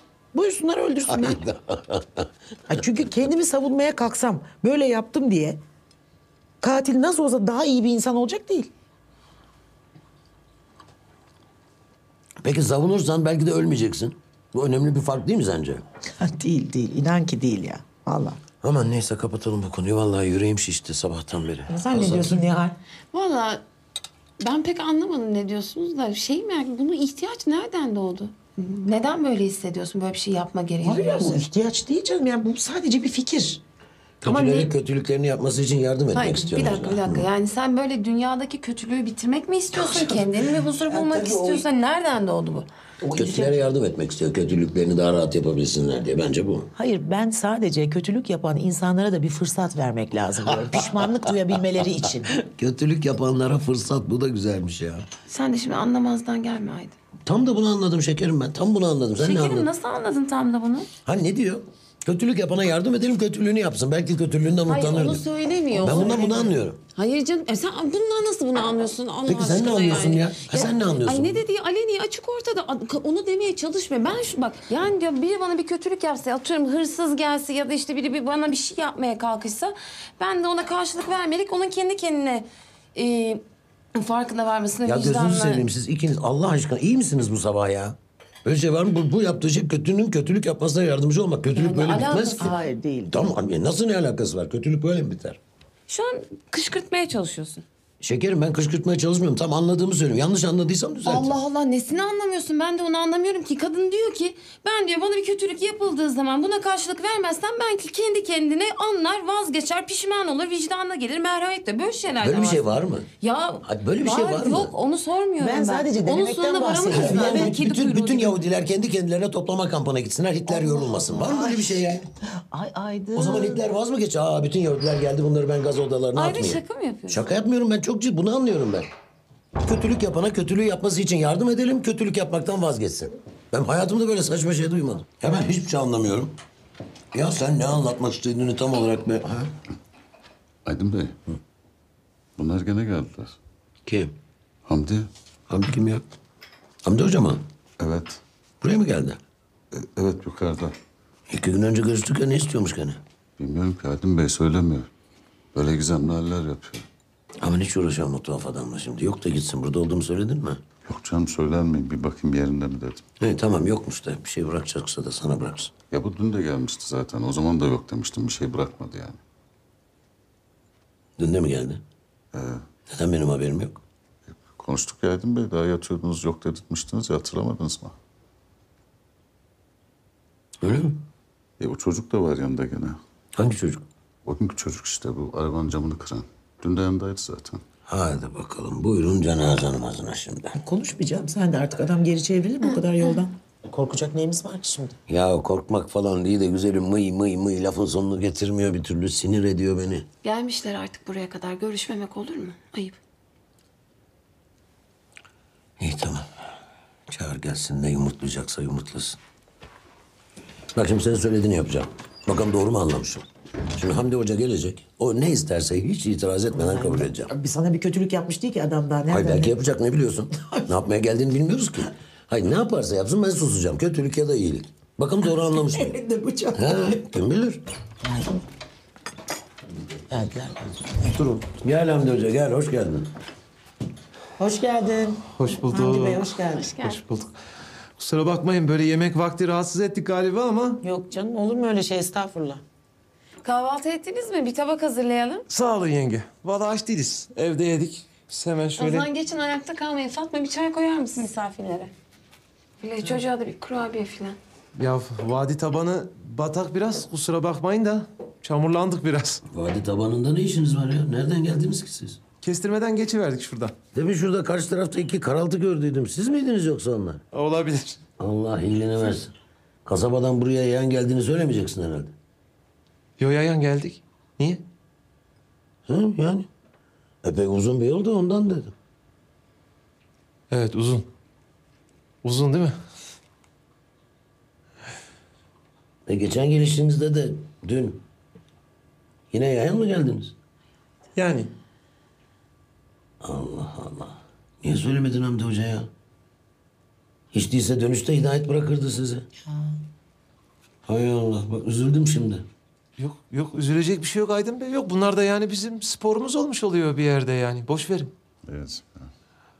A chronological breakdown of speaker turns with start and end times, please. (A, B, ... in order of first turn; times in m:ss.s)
0:00.3-0:01.4 A
0:01.1-0:02.2 B
0:02.7-0:05.6 A
0:06.6-0:08.7 A
0:12.4-0:15.8 B
0:16.2-0:18.4 A
0:18.6-0:22.4 B
0:21.7-0:22.8 A
0:23.1-0:23.6 C
0:24.4-0:31.4 C
0:30.8-0:33.6 A
0:34.2-0:37.3 B
0:34.2-0:34.7 C
0:36.1-0:42.7 C
0:40.8-0:41.6 A
0:43.0-0:43.7 A
0:43.1-0:46.7 B
0:46.7-0:52.3 A
0:52.4-0:55.0 B
0:55.3-0:57.0 C
0:57.2-0:59.7 B
0:59.2-1:00.9 C
1:01.0-1:06.8 B
1:04.7-1:23.4 C
1:09.3-1:11.4 B
1:23.9-1:25.7 C
1:24.8-1:32.5 B
1:31.5-1:32.6 C
1:32.4-1:33.3 A
1:33.1-1:35.4 B
1:35.9-1:37.6 C
1:38.0-1:41.3 B
1:41.0-1:58.4 C
1:52.2-1:53.0 B
1:53.6-1:54.7 B
1:55.4-1:57.6 A
1:56.9-2:02.0 B
2:00.5-2:01.6 A
2:01.2-2:01.6 C
2:02.5-2:03.7 A
2:03.2-2:08.9 B
2:06.1-2:07.4 C
2:09.6-2:16.3 B
2:17.1-2:19.5 B
2:20.6-2:21.2 D
2:22.4-2:23.4 D
2:23.8-2:24.1 B
2:24.6-2:25.1 D
2:25.5-2:26.0 B
2:26.8-2:27.4 B
2:27.8-2:28.2 D
2:28.6-2:29.2 B
2:29.7-2:30.8 D
2:31.3-2:33.0 B
2:33.4-2:34.9 D
2:35.5-2:36.8 D
2:37.4-2:40.6 B
2:40.8-2:43.0 D
2:43.2-2:45.7 B
2:45.9-2:49.2 D
2:51.2-2:51.8 B
2:52.3-2:52.6 D
2:52.9-2:53.8 B
2:54.3-2:57.9 D
3:00.6-3:01.0 B
3:01.6-3:03.0 D
3:03.4-3:03.8 B
3:04.2-3:07.6 D
3:07.9-3:10.6 B
3:10.5-3:14.9 A
3:12.6-3:13.2 C
3:15.1-3:20.0 B
3:20.2-3:23.0 C
3:25.8-3:26.2 B
3:27.1-3:29.2 B
3:30.7-3:37.3 B
3:36.5-3:39.6 A
3:39.1-3:46.0 B
3:40.3-3:40.7 A
3:45.2-3:47.0 A
3:46.6-3:47.6 B
3:48.0-3:48.4 A
3:50.1-3:51.4 A
3:51.4-3:53.1 B
3:54.4-3:56.7 A
3:55.3-3:57.3 E
3:56.2-3:57.0 C
3:58.0-4:00.8 E
4:00.8-4:02.6 A
4:03.4-4:05.4 C
4:05.5-4:09.1 E
4:08.8-4:11.9 C
4:12.8-4:14.4 C
4:14.7-4:19.4 E
4:19.5-4:22.2 B
4:22.4-4:23.7 E
4:23.9-4:27.2 B
4:27.3-4:28.0 E
4:28.2-4:29.3 B
4:29.8-4:32.1 B
4:33.2-4:34.6 E
4:35.9-4:36.5 B
4:37.2-4:38.7 B
4:40.5-4:41.1 E
4:42.2-4:42.8 E
4:46.1-4:48.0 B
4:49.3-4:50.3 B
4:51.1-4:51.5 E
4:53.2-4:55.9 B
4:57.3-4:59.2 B
5:00.8-5:02.4 B
5:03.0-5:08.1 E
5:08.4-5:09.1 D